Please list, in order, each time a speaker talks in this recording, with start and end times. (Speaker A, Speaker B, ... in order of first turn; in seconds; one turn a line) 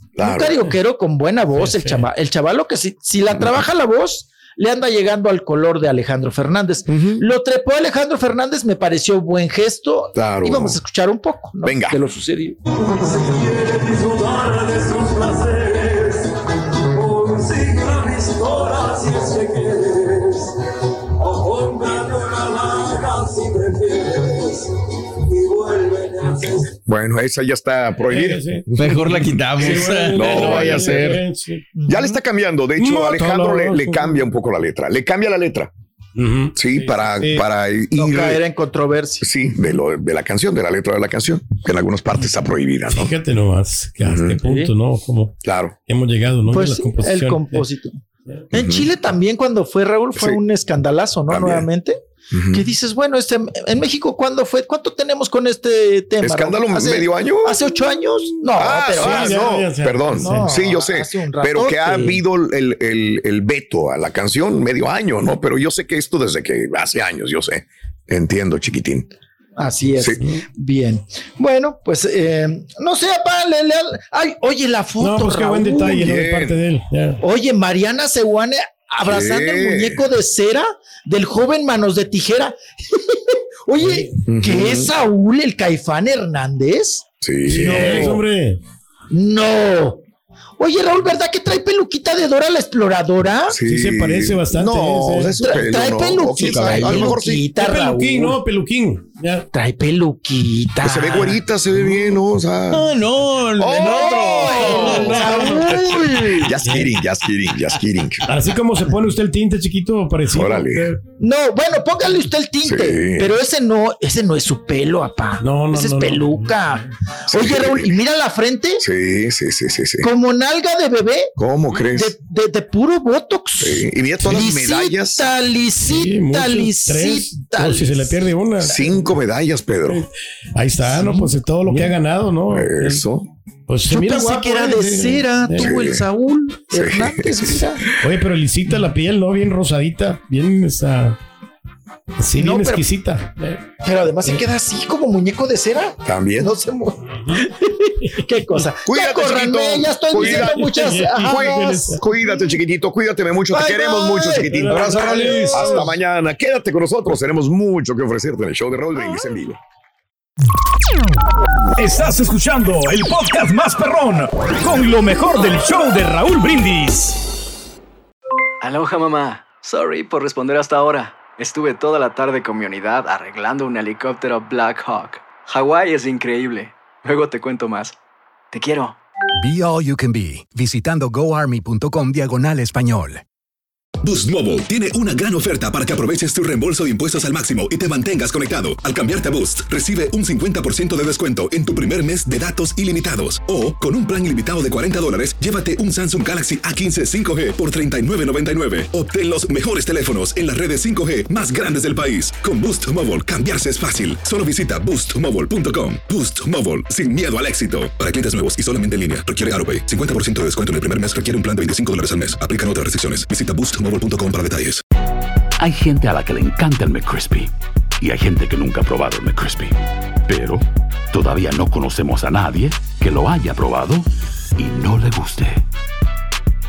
Speaker A: 0.2-0.6
Speaker B: 0.2-12.6
Speaker C: 1.6-2.0
Speaker A: 6.9-7.2
Speaker A: 10.2-10.8
Speaker A: 11.6-12.0
Speaker D: 23.2-23.7
Speaker E: 25.6-26.3
Speaker A: 26.9-31.2
Speaker C: 28.1-28.9
Speaker D: 28.7-31.3
Speaker C: 29.5-31.6
Speaker B: 31.8-32.1
Speaker A: 31.9-35.7
Speaker C: 32.8-34.2
Speaker C: 36.2-37.5
Speaker A: 36.6-38.4
Speaker B: 38.0-39.3
Speaker A: 39.2-43.1
Speaker C: 42.9-45.4
Speaker A: 44.0-44.4
Speaker B: 44.4-44.7
Speaker A: 45.5-45.8
Speaker C: 45.9-47.6
Speaker B: 46.5-48.0
Speaker B: 48.5-59.5
Speaker A: 48.5-48.9
Speaker A: 51.3-51.7
Speaker A: 52.3-52.7
Speaker A: 56.2-57.6
Speaker A: 58.6-69.1
Speaker C: 59.0-60.5
Speaker B: 60.1-62.2
Speaker B: 69.6-76.1
Speaker C: 75.0-77.2
Speaker A: 76.0-76.6
Speaker B: 77.2-88.2
Speaker A: 79.0-80.0
Speaker C: 83.8-84.1
Speaker A: 84.3-84.9
Speaker A: 87.2-88.2
Speaker C: 87.5-88.6
Speaker B: 89.1-90.0
Speaker B: 90.6-93.6
Speaker A: 93.5-97.5
Speaker C: 93.7-95.4
Speaker B: 95.4-98.4
Speaker D: 96.6-96.9
Speaker C: 97.5-99.5
Speaker B: 99.5-101.4
Speaker A: 100.8-103.0
Speaker D: 102.7-105.3
Speaker A: 103.6-108.3
Speaker B: 104.0-106.5
Speaker C: 104.9-105.8
Speaker C: 108.3-111.0
Speaker A: 110.3-110.9
Speaker B: 111.2-118.8
Speaker A: 112.6-113.3
Speaker C: 115.4-116.5
Speaker A: 117.3-118.0
Speaker A: 118.8-120.1
Speaker B: 120.0-128.3
Speaker A: 121.4-122.1
Speaker A: 123.6-125.3
Speaker C: 125.9-128.8
Speaker A: 128.6-130.1
Speaker C: 129.9-133.0
Speaker A: 132.5-133.3
Speaker C: 133.7-135.7
Speaker B: 133.9-137.9
Speaker A: 135.6-136.0
Speaker A: 136.7-137.9
Speaker C: 138.0-141.2
Speaker C: 142.2-143.6
Speaker B: 142.4-142.9
Speaker B: 143.8-152.4
Speaker A: 146.1-146.5
Speaker A: 148.9-159.6
Speaker C: 150.2-152.0
Speaker B: 153.5-155.9
Speaker C: 154.5-155.8
Speaker E: 161.8-167.2
Speaker F: 168.6-177.9
Speaker F: 178.5-179.0
Speaker G: 179.4-183.2
Speaker H: 184.0-214.8
Speaker I: 215.6-219.8
Speaker I: 220.3-225.6